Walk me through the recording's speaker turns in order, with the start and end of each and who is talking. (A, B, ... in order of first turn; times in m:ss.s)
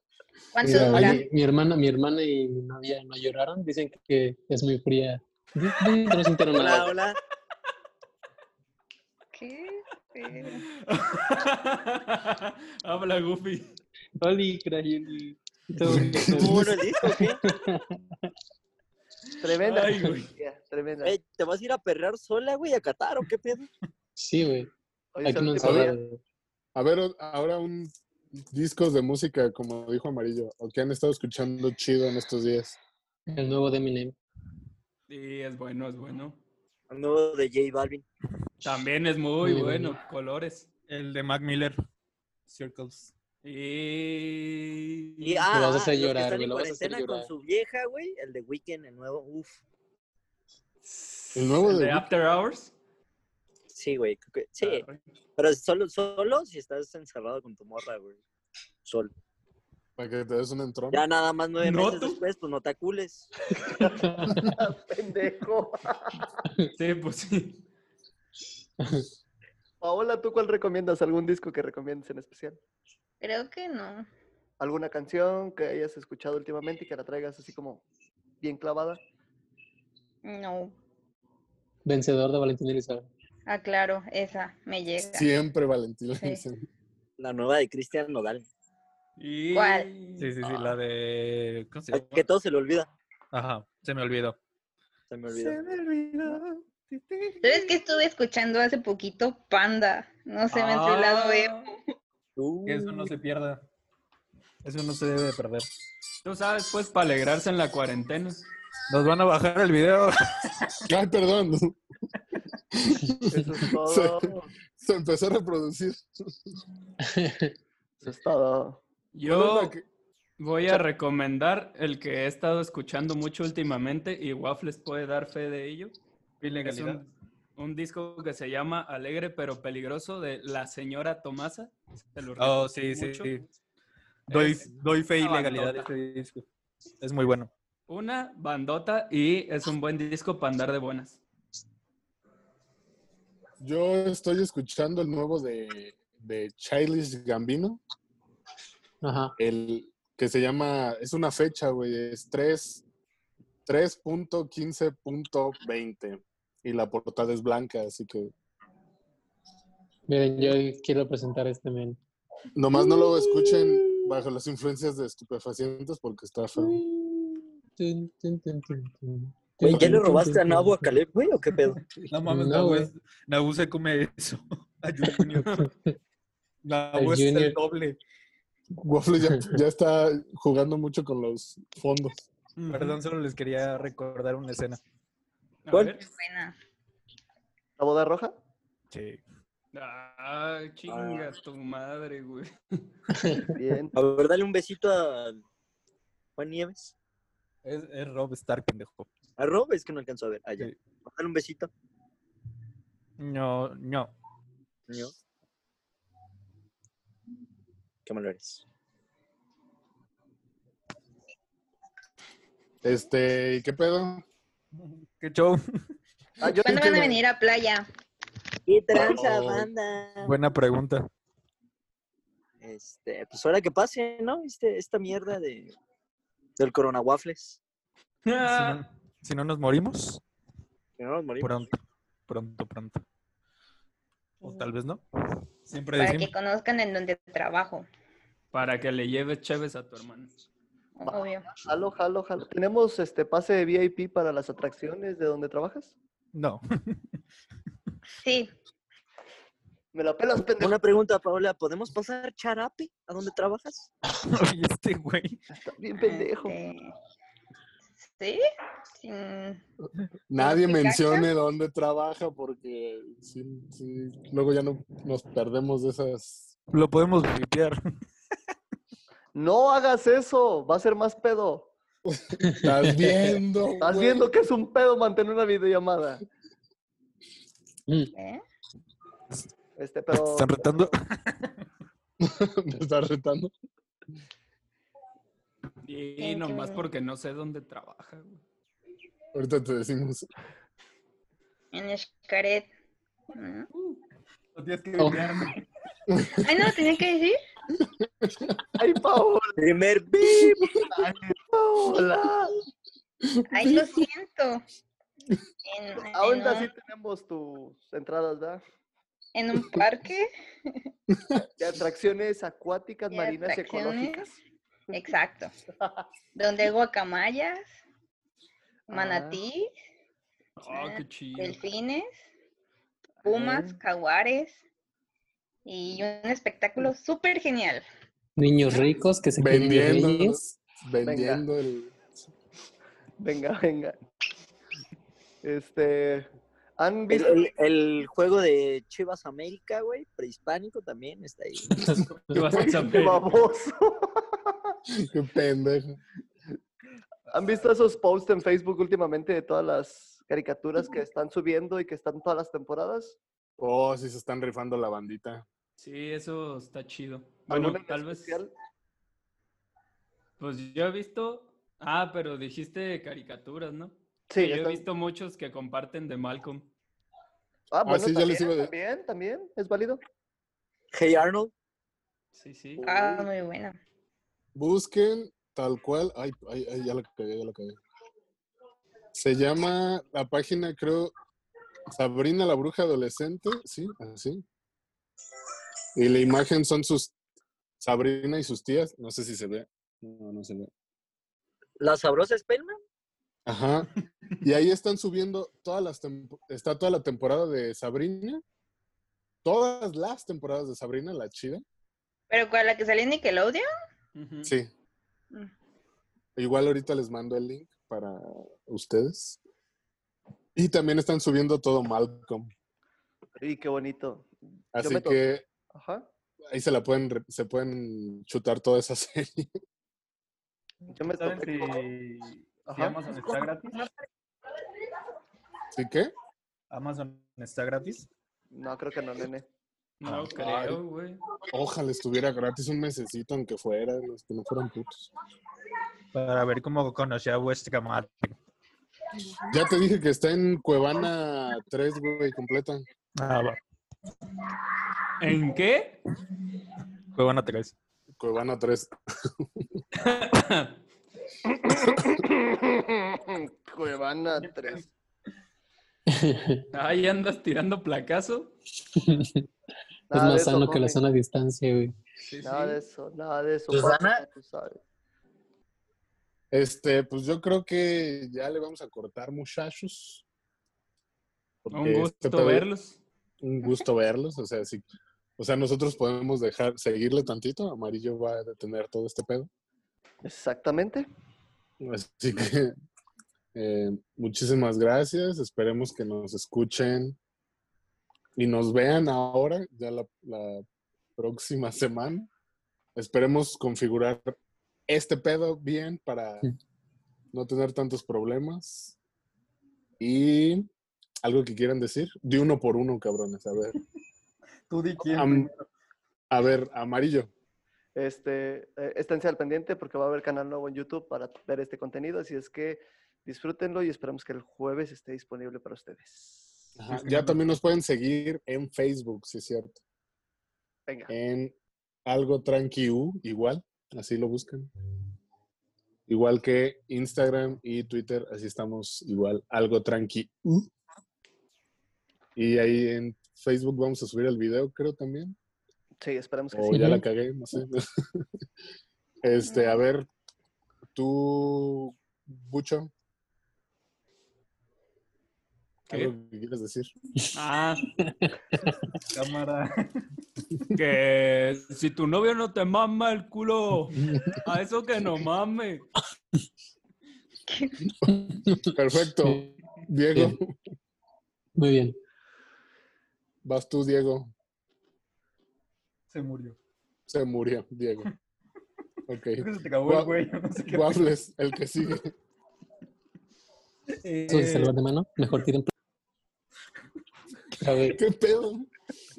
0:00.5-0:01.2 A
0:00.6-0:01.2 B
0:00.6-0:06.9 C
0:06.5-0:07.2 D
0:09.4-0:10.6 A
0:10.7-0:13.7 E
0:14.2-0:18.0 C
0:15.8-0:16.6 B
0:16.3-0:17.4 D
0:19.4-0:21.2 F
0:19.6-0:20.3 E
0:21.0-0:23.7 D
0:24.2-0:24.7 C
0:25.1-0:26.0 F
0:25.2-0:26.2 C
0:25.6-0:25.9 B
0:26.8-0:27.9 B
0:28.5-0:32.8 B
0:33.3-0:34.2 C
0:35.1-0:36.4 E
0:36.9-0:38.0 D
0:38.6-0:40.7 E
0:39.4-0:40.0 C
0:40.9-0:41.8 G
0:42.5-0:43.1 G
0:43.4-0:45.4 E
0:45.2-0:49.6 D
0:45.5-0:47.3 C
0:50.8-0:52.7 E
0:51.4-0:52.0 B
0:53.7-0:54.8 D
0:54.6-0:55.0 E
0:55.4-0:58.2 D
0:58.8-0:59.1 D
1:00.0-1:01.0 B
1:00.9-1:03.3 D
1:01.6-1:02.2 E
1:03.6-1:06.3 F
1:06.8-1:07.6 E
1:09.8-1:12.6 F
1:13.2-1:14.1 A
1:14.6-1:17.8 F
1:18.4-1:19.0 F
1:20.2-1:20.8 A
1:21.9-1:23.1 C
1:23.5-1:25.3 A
1:25.1-1:26.7 B
1:27.2-1:28.5 D
1:29.2-1:30.4 E
1:29.5-1:29.9 A
1:30.2-1:32.2 G
1:31.9-1:32.9 D
1:33.3-1:34.4 G
1:35.1-1:35.6 D
1:35.3-1:37.8 F
1:37.4-1:41.7 A
1:40.5-1:41.7 E
1:42.4-1:43.1 D
1:42.6-1:43.6 G
1:44.6-1:45.7 G
1:46.2-1:48.4 E
1:48.9-1:50.8 G
1:50.9-1:51.8 B
1:52.8-1:56.3 B
1:53.3-1:54.5 F
1:57.1-1:57.5 C
1:58.0-1:58.8 F
1:59.1-1:59.7 E
1:59.3-1:59.8 B
2:00.4-2:05.9 E
2:06.4-2:07.0 G
2:06.6-2:07.0 E
2:07.6-2:13.3 E
2:12.4-2:13.4 G
2:14.3-2:16.4 G
2:14.3-2:15.9 E
2:17.0-2:17.5 G
2:17.9-2:21.2 E
2:23.6-2:27.8 B
2:29.0-2:29.3 C
2:29.4-2:32.8 B
2:33.7-2:38.3 B
2:40.1-2:42.0 C
2:42.6-2:46.8 B
2:47.8-2:51.0 C
2:49.6-2:50.1 B
2:49.7-2:51.8 D
2:52.1-2:55.6 G
2:52.2-2:52.9 C
2:56.6-2:58.0 G
2:57.0-2:57.6 C
2:58.8-3:02.2 B
3:02.6-3:03.0 E
3:02.7-3:04.8 G
3:05.7-3:06.0 E
3:06.0-3:06.5 A
3:07.8-3:08.3 F
3:08.9-3:09.2 G
3:09.7-3:12.9 E
3:10.9-3:11.3 D
3:13.2-3:13.5 C
3:13.6-3:14.0 F
3:13.9-3:15.4 D
3:16.4-3:16.9 D
3:17.6-3:19.1 G
3:19.4-3:21.7 D
3:23.2-3:24.1 G
3:24.9-3:25.1 D
3:28.0-3:28.6 D
3:32.8-3:34.2 B
3:34.7-3:35.6 G
3:36.4-3:37.2 F
3:36.6-3:37.9 A
3:38.7-3:40.4 D
3:39.0-3:39.7 B
3:40.2-3:41.1 G
3:42.6-3:45.7 D
3:46.6-3:47.6 D
3:48.3-3:48.8 E
3:48.4-3:50.2 G
3:51.0-3:51.7 D
3:51.4-3:51.7 G
3:52.3-3:53.0 G
3:54.4-3:55.0 G
3:54.4-3:54.7 A
3:55.7-3:56.3 G
3:56.0-3:57.9 A
3:58.5-4:00.3 E
4:01.0-4:01.4 A
4:01.1-4:05.9 F
4:06.3-4:07.0 G
4:08.2-4:08.5 A
4:09.9-4:10.7 F
4:10.6-4:13.9 D
4:14.2-4:15.4 G
4:15.5-4:16.6 F
4:16.0-4:16.9 A
4:18.0-4:18.4 A
4:19.0-4:19.6 A
4:20.3-4:26.5 B
4:20.4-4:21.3 A
4:26.7-4:27.8 G
4:29.3-4:31.7 F
4:32.1-4:34.3 B
4:32.4-4:33.4 C
4:33.8-4:36.2 F
4:38.1-4:38.4 A
4:39.8-4:41.0 F
4:40.1-4:41.6 G
4:42.2-4:43.5 B
4:45.8-4:48.4 E
4:46.2-4:46.9 A
4:49.3-4:50.3 B
4:51.7-4:52.7 A
4:53.4-4:53.7 A
4:53.7-4:54.0 E
4:54.6-4:55.6 G
4:55.0-4:55.3 C
4:56.4-4:57.4 A
4:57.8-4:58.6 B
4:58.8-4:59.6 F
4:59.6-5:00.8 D
5:00.7-5:02.6 F
5:03.4-5:03.9 B
5:03.5-5:04.6 A
5:05.7-5:06.7 A
5:06.1-5:08.6 F
5:09.4-5:10.8 A
5:11.6-5:14.4 F
5:13.1-5:14.3 A
5:14.9-5:15.5 A
5:16.4-5:17.6 A
5:18.9-5:19.4 F
5:18.9-5:19.7 A
5:20.6-5:21.6 E
5:20.7-5:22.2 A
5:23.2-5:23.8 F
5:23.2-5:24.6 A
5:25.7-5:27.8 A
5:28.4-5:30.4 C
5:29.4-5:32.0 B
5:31.0-5:31.4 F
5:33.2-5:34.0 F
5:35.4-5:36.3 F
5:36.8-5:37.5 F
5:37.1-5:41.9 D
5:42.3-5:43.3 E
5:42.5-5:44.6 F
5:44.9-5:46.0 B
5:47.3-5:53.2 F
5:53.6-5:55.5 B
5:55.8-5:58.4 E
5:57.5-5:58.5 F
6:00.4-6:06.7 E
6:04.3-6:04.8 F
6:07.7-6:10.0 F
6:07.8-6:08.7 B
6:10.9-6:11.5 D
6:12.3-6:12.8 E
6:12.8-6:13.8 A
6:14.6-6:17.8 B
6:19.1-6:21.1 B
6:21.9-6:24.4 B
6:26.0-6:27.2 B
6:27.8-6:30.7 B
6:31.8-6:32.8 D
6:33.5-6:38.4 B
6:39.4-6:41.6 B
6:42.3-6:43.6 A
6:44.2-6:44.5 E
6:46.4-6:49.4 B
6:50.6-6:52.5 B
6:53.4-6:55.2 F
6:54.8-6:55.4 B
6:55.7-6:56.1 F
6:56.5-6:59.5 B
7:00.8-7:03.8 G
7:00.9-7:01.8 F
7:02.7-7:03.4 F
7:05.7-7:06.1 B
7:06.7-7:08.1 G
7:08.5-7:09.5 F
7:10.0-7:11.2 E
7:10.1-7:10.8 G
7:11.5-7:15.1 B
7:16.1-7:18.4 G
7:19.5-7:22.8 B
7:23.2-7:23.6 G
7:25.2-7:26.0 E
7:27.2-7:27.8 G
7:28.2-7:29.7 B
7:30.0-7:30.7 E
7:32.5-7:34.9 F
7:36.1-7:36.6 C
7:36.7-7:38.5 E
7:39.0-7:39.4 C
7:40.1-7:41.0 F
7:40.1-7:42.0 C
7:42.3-7:42.8 E
7:42.4-7:44.8 F
7:43.7-7:44.2 D
7:46.5-7:50.2 B
7:51.6-7:52.7 B
7:51.7-7:53.0 E
7:53.4-7:54.8 B
7:55.4-7:59.5 B
8:00.2-8:01.1 F
8:01.8-8:02.8 B
8:03.6-8:07.2 B
8:08.4-8:10.6 B
8:11.2-8:12.3 B
8:13.0-8:14.4 B
8:14.9-8:16.5 B
8:17.3-8:19.0 B
8:20.0-8:20.7 B
8:21.2-8:23.8 B
8:24.7-8:25.7 G
8:25.1-8:25.5 B
8:26.3-8:27.3 B
8:28.0-8:36.8 F
8:36.8-8:39.8 B
8:36.9-8:37.4 G
8:41.1-8:41.6 B
8:42.1-8:44.7 B
8:46.1-8:50.7 B
8:52.4-8:55.4 B
8:56.0-8:56.8 F
8:56.5-8:58.3 B
8:56.7-8:57.0 C
8:59.2-9:00.1 B
8:59.4-8:59.8 A
9:00.9-9:02.9 B
9:05.9-9:06.9 B
9:07.4-9:07.9 E
9:08.0-9:08.3 C
9:09.1-9:10.0 G
9:10.8-9:15.9 E
9:14.0-9:14.4 B
9:17.5-9:17.8 A
9:18.1-9:18.6 C
9:18.7-9:20.6 B
9:19.2-9:19.5 C
9:21.6-9:22.0 C
9:23.4-9:24.3 B
9:26.1-9:26.6 G
9:27.1-9:28.1 B
9:29.1-9:32.1 B
9:29.4-9:31.0 G
9:33.9-9:34.7 G
9:34.3-9:35.7 C
9:37.6-9:38.0 C
9:37.8-9:38.7 B